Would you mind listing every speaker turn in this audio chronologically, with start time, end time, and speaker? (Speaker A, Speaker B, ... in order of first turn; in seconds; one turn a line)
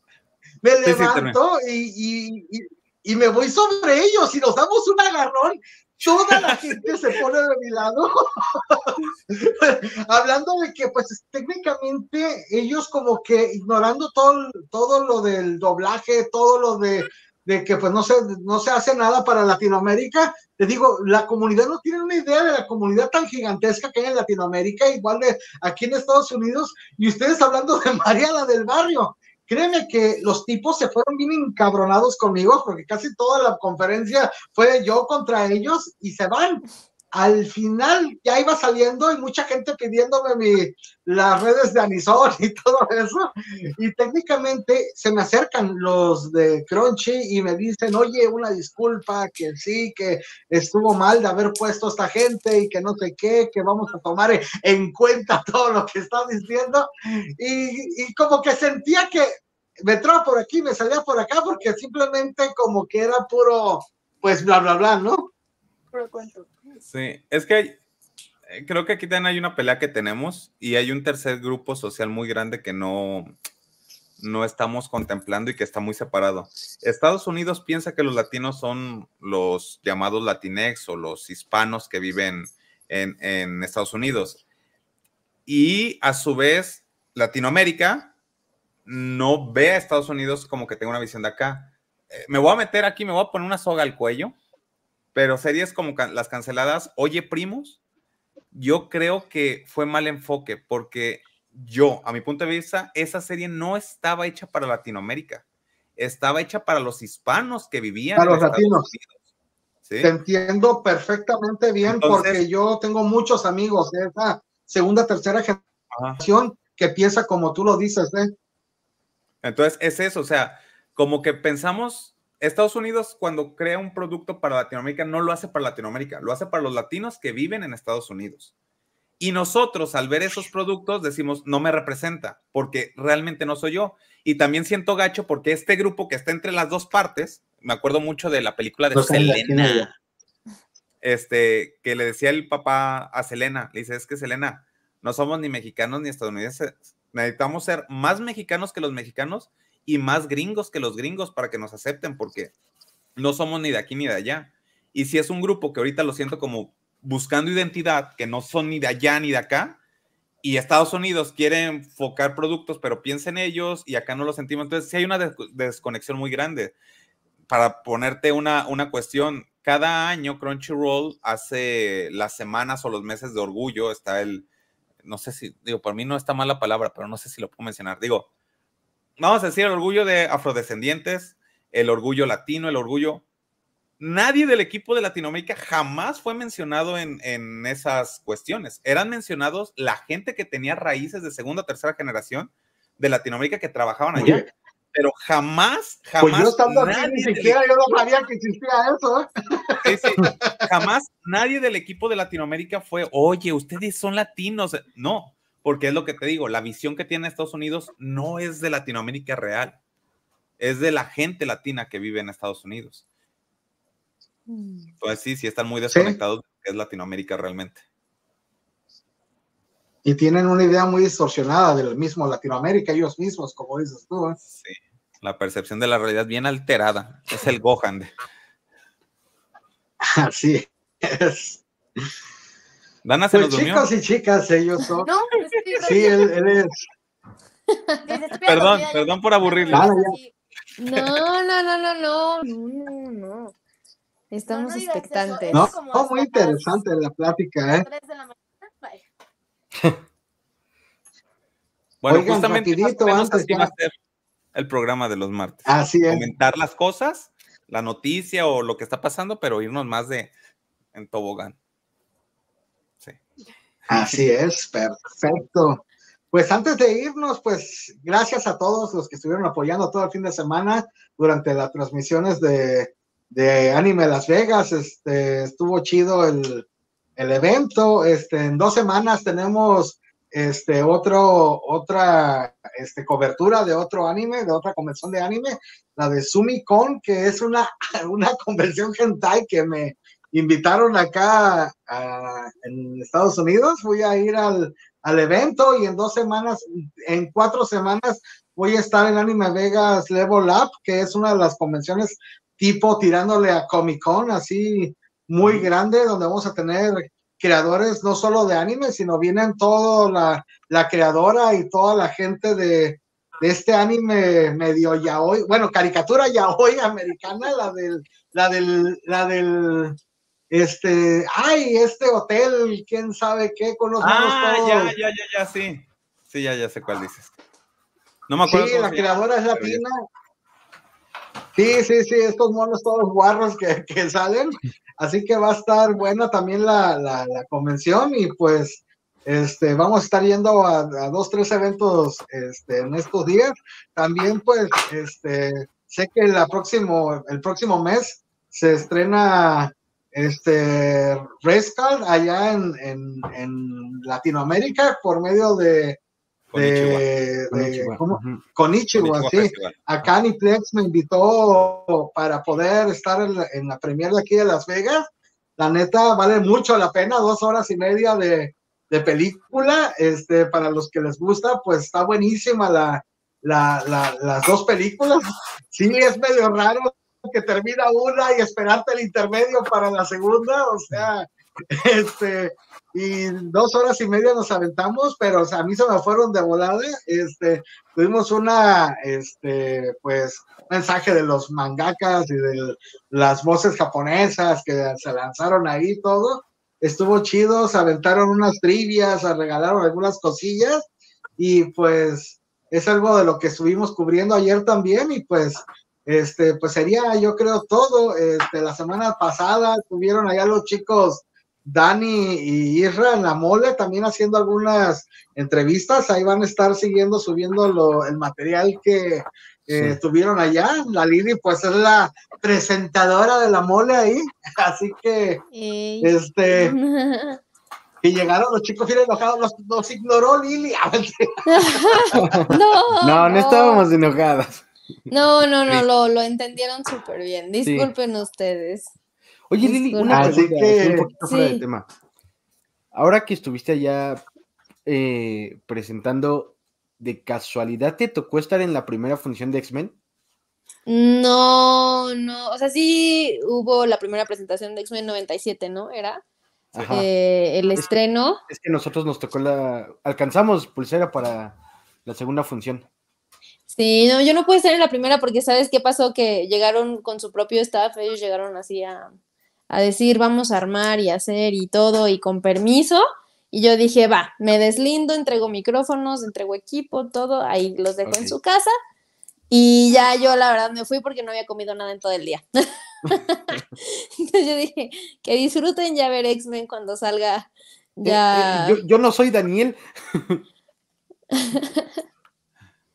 Speaker A: 0.6-65.3
Speaker B: 0.8-1.4
Speaker B: 6.3-6.8
Speaker C: 65.9-66.5
Speaker B: 66.8-67.8
Speaker B: 68.5-73.3
Speaker B: 74.2-84.4
Speaker B: 85.5-88.1
Speaker B: 88.8-94.3
Speaker B: 95.1-97.8
Speaker B: 98.5-105.4
Speaker B: 106.0-109.1
Speaker A: 108.2-108.9
Speaker B: 109.8-110.1
Speaker A: 110.0-115.6
Speaker B: 111.8-112.4
Speaker B: 115.9-116.2
Speaker A: 116.2-118.3
Speaker B: 119.4-128.5
Speaker B: 129.2-139.9
Speaker A: 138.9-139.9
Speaker B: 141.0-152.5
Speaker B: 153.2-159.8
Speaker B: 160.4-166.7
Speaker B: 167.5-174.4
Speaker B: 175.0-178.3
Speaker B: 179.2-183.2
Speaker B: 184.0-197.6
Speaker A: 194.2-194.4
Speaker A: 196.2-200.8
Speaker B: 199.8-209.8
Speaker B: 210.6-213.0
Speaker D: 214.5-214.9
Speaker B: 215.0-217.8
Speaker A: 215.9-216.2
Speaker A: 220.0-224.4
Speaker B: 224.4-228.1
Speaker A: 230.0-231.6
Speaker B: 233.0-233.9
Speaker A: 233.3-235.1
Speaker C: 235.0-236.3
Speaker A: 235.8-236.9
Speaker C: 238.1-240.3
Speaker B: 238.5-239.9
Speaker A: 239.7-240.1
Speaker D: 240.8-243.5
Speaker D: 244.3-245.7
Speaker C: 244.5-246.8
Speaker A: 245.5-247.9
Speaker C: 247.7-249.1
Speaker B: 252.0-253.9
Speaker A: 252.1-253.7
Speaker B: 254.5-260.3
Speaker A: 255.7-256.2
Speaker B: 260.9-261.6
Speaker B: 263.9-264.2
Speaker A: 263.9-276.6
Speaker A: 277.2-320.0
Speaker A: 320.5-324.9
Speaker B: 324.0-327.3
Speaker B: 328.3-329.8
Speaker A: 328.4-330.0
Speaker A: 331.6-356.0
Speaker B: 356.5-357.1
Speaker A: 356.5-400.8
Speaker E: 357.5-358.4
Speaker B: 358.9-359.8
Speaker A: 401.4-425.4
Speaker E: 419.7-420.0
Speaker D: 425.5-427.4
Speaker A: 426.0-426.8
Speaker A: 428.0-432.4
Speaker D: 431.5-433.9
Speaker E: 432.1-434.6
Speaker D: 435.1-438.9
Speaker E: 437.6-437.9
Speaker E: 439.5-441.9
Speaker D: 439.6-440.4
Speaker A: 440.1-441.1
Speaker D: 441.2-441.6
Speaker E: 442.9-444.2
Speaker E: 444.9-449.9
Speaker D: 450.9-456.2
Speaker E: 456.7-457.1
Speaker D: 456.9-458.4
Speaker E: 458.5-462.9
Speaker D: 463.7-469.1
Speaker D: 469.7-478.7
Speaker E: 478.0-478.4
Speaker D: 479.5-483.6
Speaker D: 484.2-488.8
Speaker E: 488.0-490.4
Speaker D: 491.5-491.8